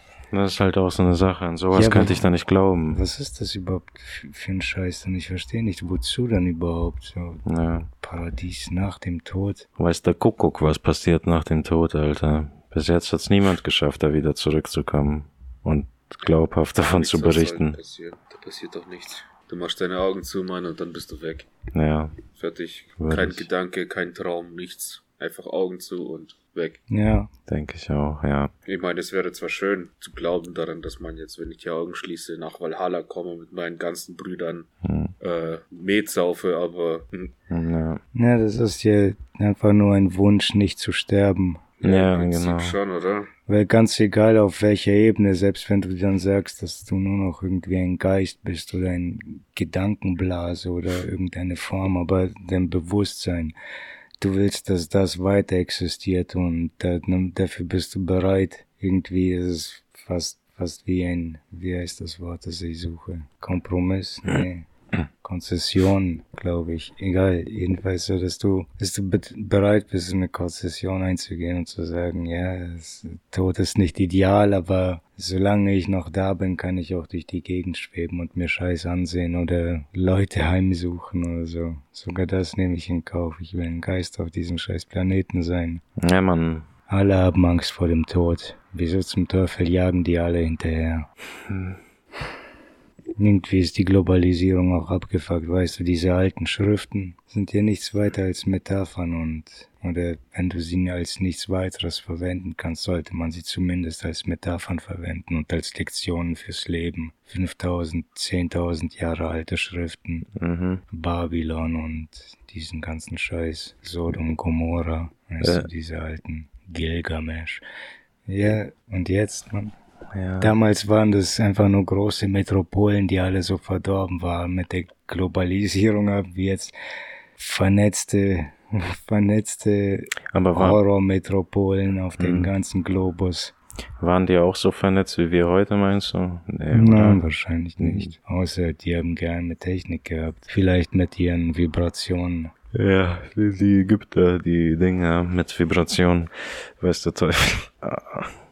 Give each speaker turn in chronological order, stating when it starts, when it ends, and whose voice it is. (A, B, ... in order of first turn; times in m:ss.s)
0:00.3-0:03.0 A
0:01.7-0:02.2 B
0:02.9-0:09.7 B
0:07.4-0:07.9 A
0:09.8-0:17.8 A
0:16.3-0:21.5 C
0:21.7-0:22.2 A
0:22.3-0:26.8 C
0:23.0-0:23.5 A
0:26.9-0:27.3 B
0:27.5-0:28.5 A
0:28.7-0:37.3 C
0:34.8-0:35.1 A
0:37.5-0:38.0 A
0:38.1-0:41.7 B
0:41.8-0:43.3 C
0:41.8-0:42.8 A
0:43.5-0:53.5 B
0:54.2-1:04.7 B
1:05.2-1:25.8 B
1:26.0-1:26.7 A
1:26.9-1:31.1 B
1:31.5-1:31.8 A
1:33.2-1:50.3 B
1:50.4-1:50.8 A
1:50.9-1:57.6 B
1:55.4-1:55.7 A
1:58.3-1:59.7 B
2:00.1-2:00.5 A
2:00.4-2:06.7 B
2:07.4-2:13.5 B
2:10.3-2:10.8 A
2:12.2-2:12.5 A
2:14.0-2:17.2 A
2:16.7-2:22.5 B
2:17.8-2:18.1 A
2:22.7-2:28.4 A